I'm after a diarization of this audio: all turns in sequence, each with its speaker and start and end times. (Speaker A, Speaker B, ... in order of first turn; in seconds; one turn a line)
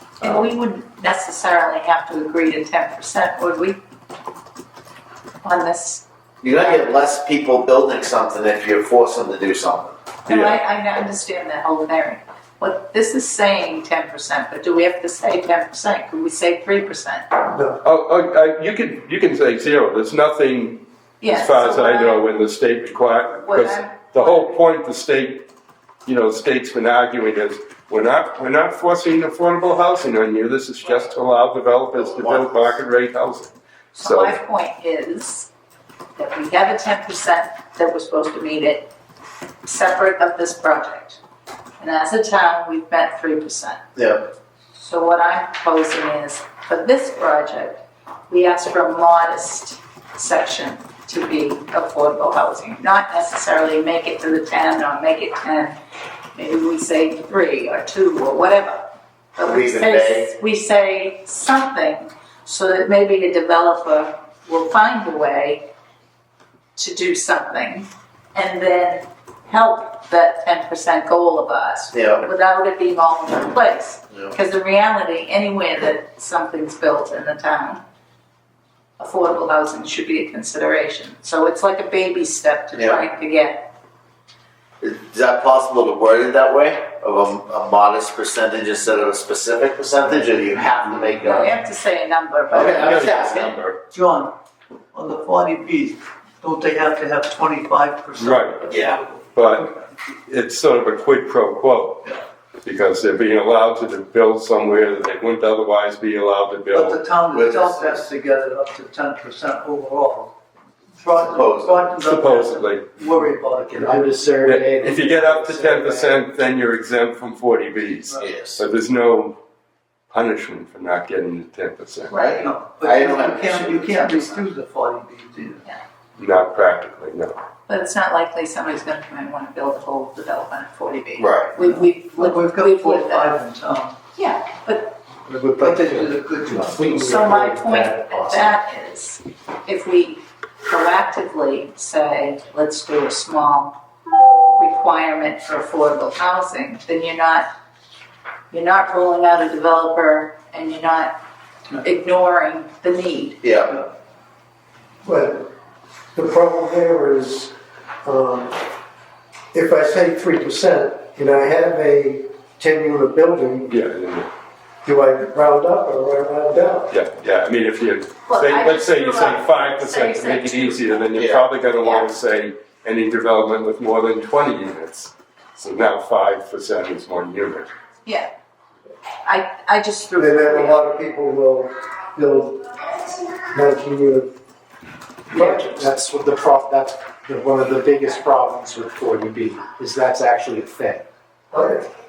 Speaker A: 0.2-3.8
Speaker A: 5.4-6.8
Speaker B: 6.4-10.0
Speaker A: 10.3-17.3
Speaker C: 10.3-10.6
Speaker D: 17.5-17.8
Speaker C: 17.8-25.5
Speaker A: 21.2-22.3
Speaker A: 23.4-24.6
Speaker C: 26.1-34.4
Speaker A: 30.8-31.2
Speaker A: 33.9-35.5
Speaker A: 36.2-38.9
Speaker A: 39.6-41.2
Speaker A: 41.8-43.8
Speaker B: 44.0-44.3
Speaker A: 44.8-55.8
Speaker A: 56.4-65.7
Speaker B: 59.4-60.3
Speaker A: 66.8-77.8
Speaker B: 71.9-72.2
Speaker A: 79.0-83.7
Speaker B: 82.8-83.0
Speaker B: 84.8-91.5
Speaker A: 91.1-93.5
Speaker B: 92.5-93.6
Speaker C: 92.6-93.8
Speaker E: 93.9-94.3
Speaker E: 94.9-99.7
Speaker C: 98.2-98.8
Speaker B: 98.7-99.0
Speaker C: 99.3-102.1
Speaker C: 102.6-107.0
Speaker E: 106.7-110.3
Speaker B: 107.3-108.1
Speaker E: 111.0-114.4
Speaker B: 111.2-112.0
Speaker C: 112.0-112.8
Speaker F: 113.6-116.2
Speaker C: 114.4-119.4
Speaker B: 118.2-118.6
Speaker C: 120.1-122.2
Speaker E: 122.1-125.6
Speaker B: 122.1-124.5
Speaker C: 126.2-127.4
Speaker A: 127.7-133.3
Speaker B: 131.2-131.6
Speaker E: 131.6-134.0
Speaker A: 134.2-135.0
Speaker D: 135.3-136.9
Speaker E: 135.6-137.3
Speaker F: 136.5-138.6
Speaker A: 136.9-143.7
Speaker A: 144.6-147.5
Speaker A: 148.5-151.2
Speaker A: 151.8-153.4
Speaker B: 153.4-153.8
Speaker D: 155.0-155.5
Speaker D: 156.2-158.6
Speaker D: 159.5-163.7
Speaker C: 163.7-164.3
Speaker D: 164.8-166.9
Speaker C: 166.9-177.7
Speaker A: 168.3-171.1
Speaker B: 171.2-171.4
Speaker A: 171.8-172.2
Speaker A: 179.2-180.9
Speaker D: 180.2-184.3
Speaker F: 185.3-191.1
Speaker D: 185.3-185.9
Speaker D: 191.5-191.9